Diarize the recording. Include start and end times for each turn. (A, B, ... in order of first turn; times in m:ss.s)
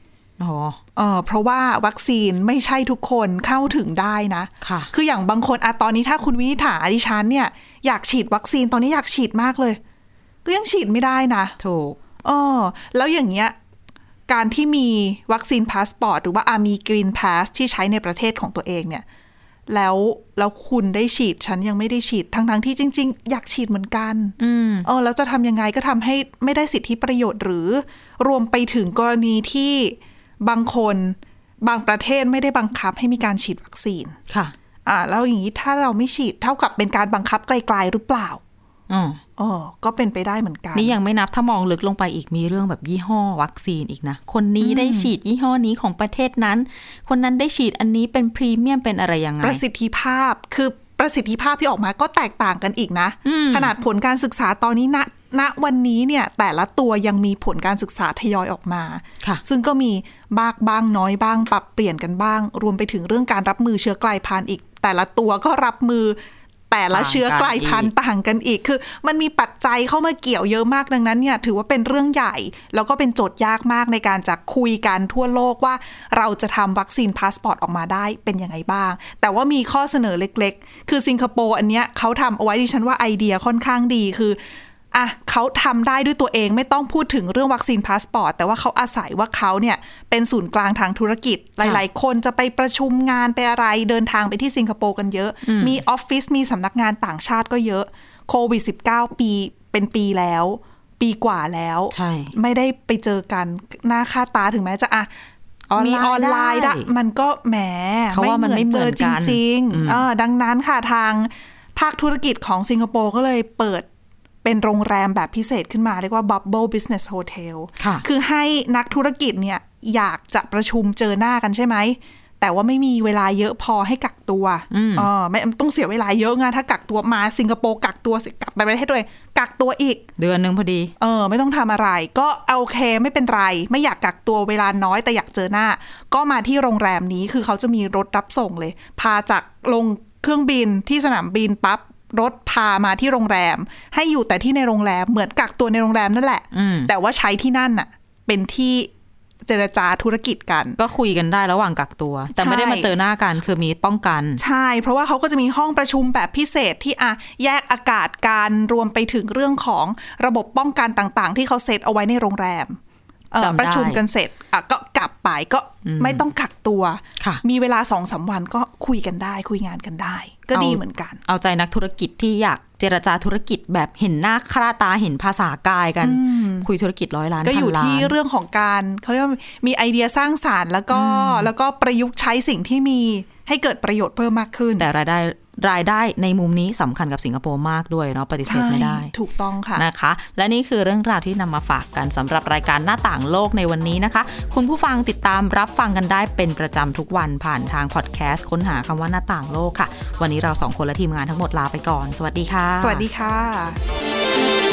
0:00.4-0:00.8 A
0:01.0-0:09.8 B
0:04.6-0:04.9 A
0:10.4-0:11.6 B
0:11.6-0:12.0 A
0:12.2-0:13.6 B
0:14.3-0:19.0 B
0:19.7-0:34.2 B
0:24.4-0:24.9 A
0:34.8-0:38.4 B
0:38.9-0:39.2 A
0:39.4-0:40.9 B
0:40.7-0:49.6 A
0:44.6-0:45.1 B
0:49.4-1:06.2 B
0:53.2-0:53.7 A
1:06.7-1:24.4 B
1:06.9-1:07.9 A
1:24.9-1:45.1 B
1:35.4-1:35.8 A
1:41.9-1:42.3 A
1:45.7-1:46.9 A
1:45.7-1:53.9 B
1:48.1-1:50.0 A
1:54.4-2:10.0 B
1:57.8-1:58.0 A
2:04.7-2:05.1 A
2:10.2-2:10.9 A
2:11.0-2:28.9 B
2:26.5-2:26.9 A
2:29.4-2:30.8 B
2:30.8-2:34.4 A
2:32.4-2:32.9 B
2:34.4-2:42.8 B
2:43.3-2:51.2 B
2:43.4-2:44.0 A
2:45.8-2:46.2 A
2:50.5-2:58.1 A
2:56.0-2:56.7 B
2:57.4-3:04.9 B
3:00.9-3:01.5 A
3:04.8-3:09.1 A
3:08.5-3:09.8 B
3:09.7-3:23.0 A
3:22.8-3:23.8 B